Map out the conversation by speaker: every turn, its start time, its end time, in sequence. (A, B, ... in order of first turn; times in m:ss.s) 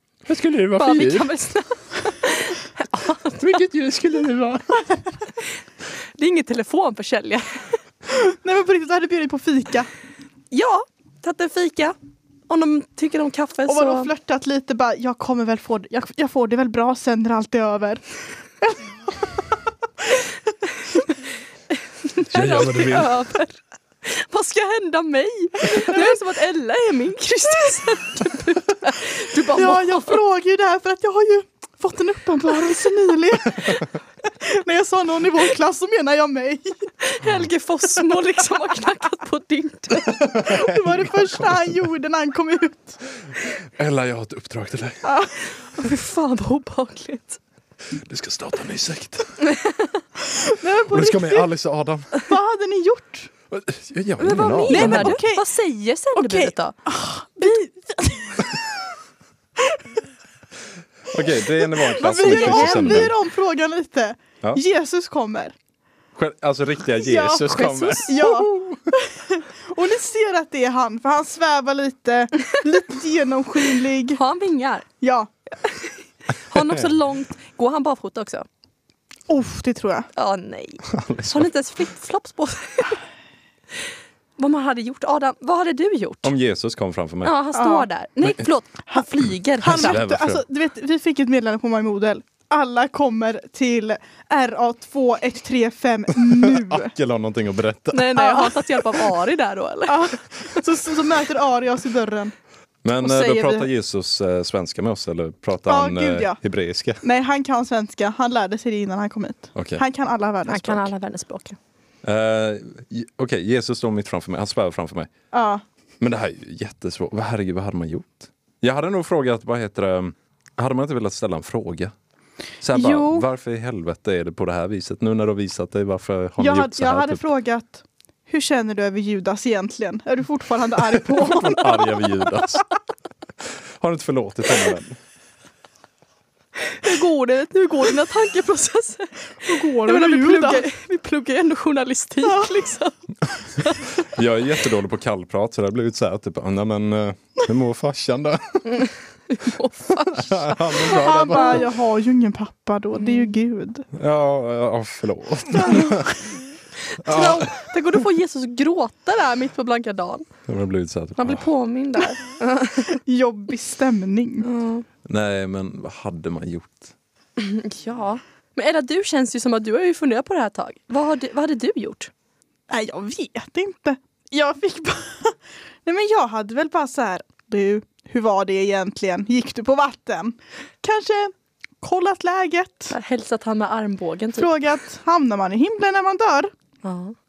0:00.3-0:01.3 A
0:00.8-0:03.4 B
0:03.4-0:04.8 A
0:06.2-0:07.8 B
0:08.1-0:09.9 C
0:10.5-0:12.0 B
0:12.5-0:14.1 B
0:13.7-0:19.5 C
0:22.1-0:30.2 B
0:22.3-0:23.2 A
0:25.7-0:26.2 C
0:29.5-0:36.9 C
0:37.0-0:40.2 B
0:40.1-0:41.6 A
0:40.4-0:43.0 C
0:43.8-0:45.0 A
0:45.0-0:45.3 C
0:45.7-0:47.4 B
0:47.9-0:49.4 A
0:49.4-0:50.0 B
0:50.2-0:51.5 C
0:50.9-0:52.1 A
0:52.2-0:53.3 C
0:53.5-0:55.2 A
0:54.2-0:56.8 B
0:54.7-0:55.5 C
0:56.2-0:58.8 C
1:01.1-1:03.1 A
1:01.6-1:05.6 C
1:02.0-1:03.1 B
1:06.2-1:08.8 A
1:07.0-1:07.5 C
1:07.5-1:08.4 B
1:08.0-1:14.2 C
1:14.1-1:14.9 B
1:15.0-1:15.3 C
1:15.6-1:18.5 B
1:19.3-1:20.1 C
1:20.2-1:23.0 B
1:20.9-1:21.4 A
1:24.4-1:26.3 B
1:26.2-1:27.3 A
1:27.2-1:30.0 B
1:27.5-1:27.9 C
1:29.6-1:36.9 C
1:29.7-1:30.4 A
1:36.2-1:38.2 A
1:37.9-1:40.6 B
1:38.2-1:39.1 C
1:39.9-1:42.4 C
1:42.8-1:47.0 A
1:43.0-1:43.7 C
1:45.7-1:46.4 C
1:47.0-1:50.9 C
1:49.6-1:49.8 A
1:50.5-1:51.6 B
1:52.0-1:55.1 A
1:55.3-1:55.6 C
1:56.0-2:01.9 A
2:02.6-2:07.3 A
2:02.7-2:03.3 C
2:06.4-2:12.1 C
2:10.9-2:12.7 A
2:13.8-2:15.0 A
2:16.7-2:22.9 B
2:19.4-2:20.6 C
2:22.2-2:22.7 C
2:23.5-2:23.8 B
2:24.0-2:28.9 A
2:28.7-2:31.6 B
2:30.1-2:31.7 A
2:30.8-2:33.9 C
2:33.0-2:33.4 B
2:33.9-2:36.2 A
2:35.5-2:36.2 C
2:36.9-2:40.3 B
2:37.0-2:37.7 A
2:40.5-2:41.5 A
2:41.2-2:43.0 B
2:42.8-2:44.5 C
2:44.4-2:44.9 B
2:45.0-2:46.9 A
2:47.4-2:52.1 B
2:52.7-3:03.0 C
3:02.9-3:04.5 B
3:04.4-3:06.5 C
3:06.8-3:07.2 B